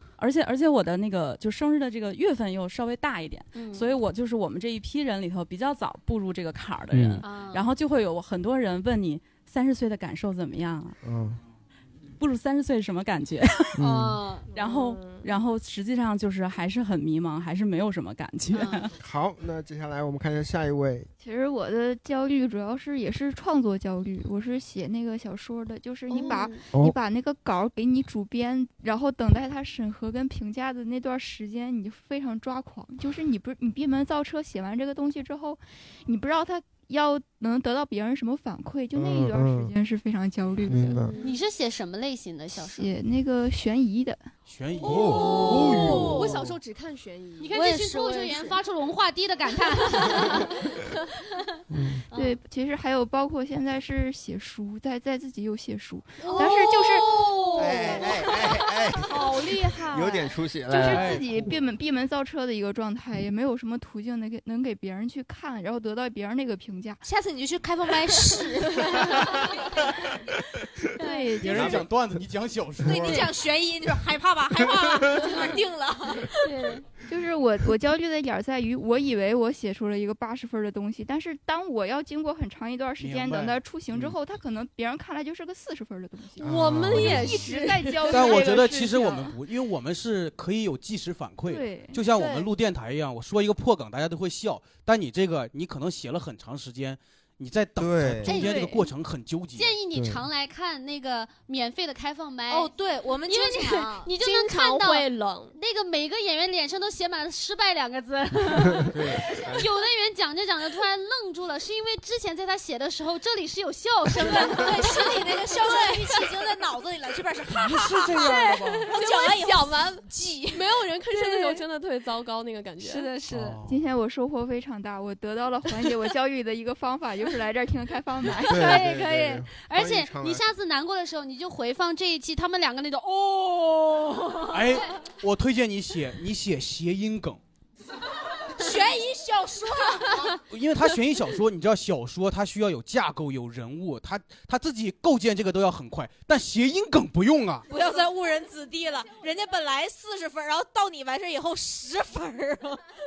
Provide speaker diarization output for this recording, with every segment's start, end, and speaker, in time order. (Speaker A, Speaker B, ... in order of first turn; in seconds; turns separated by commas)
Speaker A: 0.2-11.0, Speaker B: 3.5-3.9, Speaker B: 7.2-7.7, Speaker C: 11.0-11.4, Speaker A: 12.2-13.8, Speaker C: 13.8-14.2, Speaker B: 13.8-14.5, Speaker D: 14.5-15.3, Speaker A: 14.6-18.9, Speaker C: 19.0-21.1, Speaker E: 21.2-41.1, Speaker D: 26.1-26.7, Speaker C: 39.0-39.7, Speaker C: 40.7-41.1, Speaker D: 41.0-41.4, Speaker B: 41.2-42.9, Speaker E: 42.7-44.2, Speaker F: 44.5-45.4, Speaker D: 44.8-47.6, Speaker C: 44.8-46.5, Speaker B: 45.2-46.1, Speaker B: 47.4-50.7, Speaker G: 47.6-48.5, Speaker C: 51.7-52.0, Speaker E: 52.1-57.2, Speaker B: 56.2-58.5, Speaker C: 57.5-59.3, Speaker E: 59.3-59.7, Speaker C: 59.8-61.5, Speaker E: 60.7-67.0, Speaker F: 60.8-61.4, Speaker G: 67.0-69.2, Speaker B: 68.9-69.4, Speaker E: 71.0-71.9, Speaker B: 71.0-71.4, Speaker F: 71.4-73.3, Speaker C: 71.5-71.9, Speaker G: 72.8-76.5, Speaker B: 76.4-76.8, Speaker E: 77.1-89.4, Speaker F: 83.0-84.2, Speaker D: 86.4-88.4, Speaker C: 86.5-87.0, Speaker F: 86.5-87.4, Speaker F: 88.1-99.7, Speaker E: 91.5-92.0, Speaker D: 92.1-92.5, Speaker C: 97.8-98.4, Speaker B: 98.3-98.8, Speaker B: 99.6-102.7, Speaker C: 99.9-100.2, Speaker G: 102.5-104.1, Speaker B: 103.3-116.2, Speaker D: 104.2-105.6, Speaker C: 108.9-109.7, Speaker G: 114.4-120.8, Speaker D: 118.2-123.1, Speaker B: 121.1-121.6, Speaker B: 122.8-123.6, Speaker F: 123.3-123.8, Speaker E: 123.6-128.8, Speaker B: 128.4-134.6, Speaker C: 128.5-130.5, Speaker F: 134.5-137.4, Speaker G: 138.6-140.2, Speaker F: 140.2-147.7, Speaker G: 147.7-152.8